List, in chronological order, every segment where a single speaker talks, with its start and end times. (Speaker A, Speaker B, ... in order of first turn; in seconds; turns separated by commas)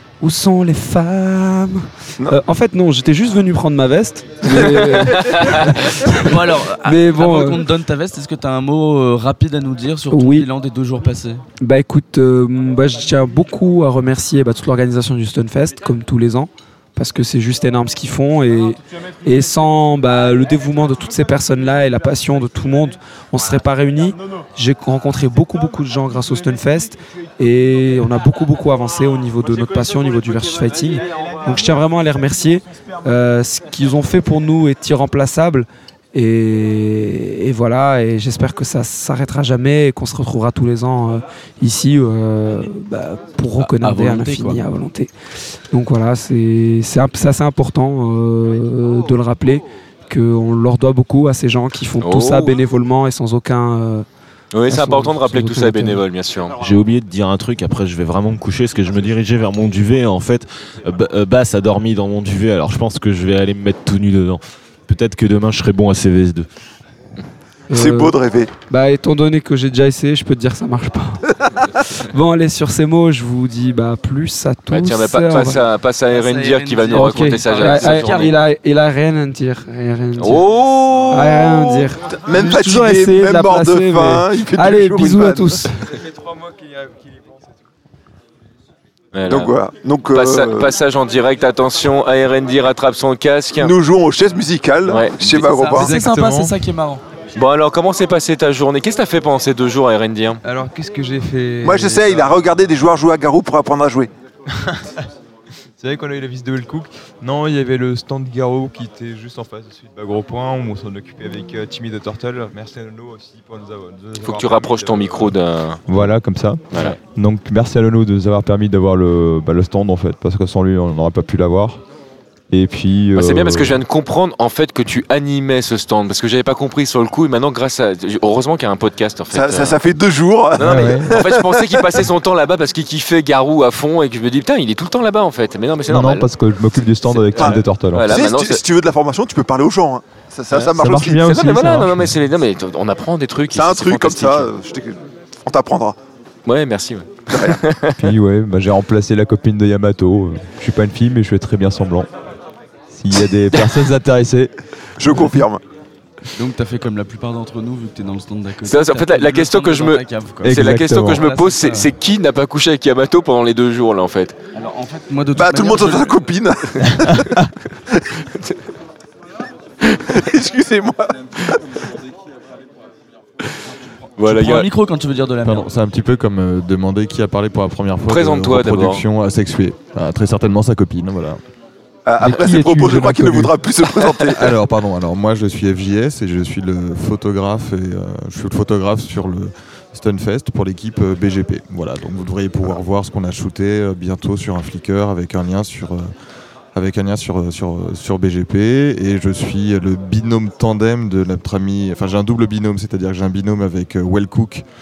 Speaker A: 0.2-7.6, Speaker B: 5.1-5.6, Speaker C: 6.2-11.4, Speaker A: 10.1-10.5, Speaker A: 11.6-45.1, Speaker C: 43.6-44.6, Speaker A: 45.7-54.0, Speaker B: 52.0-52.6, Speaker B: 54.5-56.5, Speaker A: 54.6-56.0, Speaker D: 56.6-66.5, Speaker A: 67.7-68.2, Speaker E: 67.7-68.5, Speaker A: 68.7-71.2, Speaker A: 72.0-75.6, Speaker B: 74.7-78.3, Speaker C: 76.1-78.4, Speaker A: 76.9-80.5, Speaker B: 80.2-81.5, Speaker E: 81.1-85.6, Speaker A: 81.1-85.9, Speaker B: 89.1-89.5, Speaker E: 89.3-90.7, Speaker B: 90.1-93.7, Speaker E: 93.6-95.9, Speaker B: 94.8-95.7, Speaker C: 95.3-97.0, Speaker F: 95.8-96.5, Speaker B: 97.3-100.4, Speaker F: 100.4-102.5, Speaker E: 101.6-104.1, Speaker F: 104.5-105.0, Speaker F: 105.8-115.3, Speaker B: 114.2-115.8, Speaker F: 115.9-121.8, Speaker B: 116.7-117.0, Speaker F: 122.5-123.8, Speaker B: 123.2-129.8, Speaker E: 129.3-132.1, Speaker B: 130.6-136.3, Speaker F: 130.6-131.1, Speaker F: 135.9-138.1, Speaker B: 137.1-138.6, Speaker E: 137.3-141.3, Speaker B: 140.5-144.5, Speaker F: 140.7-142.1, Speaker E: 143.5-146.0, Speaker B: 146.4-148.0, Speaker E: 147.3-147.6, Speaker F: 148.0-152.1, Speaker F: 152.9-154.5, Speaker E: 155.0-155.6, Speaker C: 156.3-161.9, Speaker B: 158.6-164.4, Speaker F: 160.4-161.2, Speaker C: 164.5-166.2, Speaker E: 165.3-167.4, Speaker E: 169.8-171.6, Speaker B: 174.2-174.7, Speaker C: 174.2-175.7, Speaker G: 175.4-181.3, Speaker B: 178.1-179.0, Speaker E: 182.1-184.5, Speaker F: 182.2-183.5, Speaker F: 184.3-184.9, Speaker G: 184.8-196.1, Speaker G: 196.7-204.6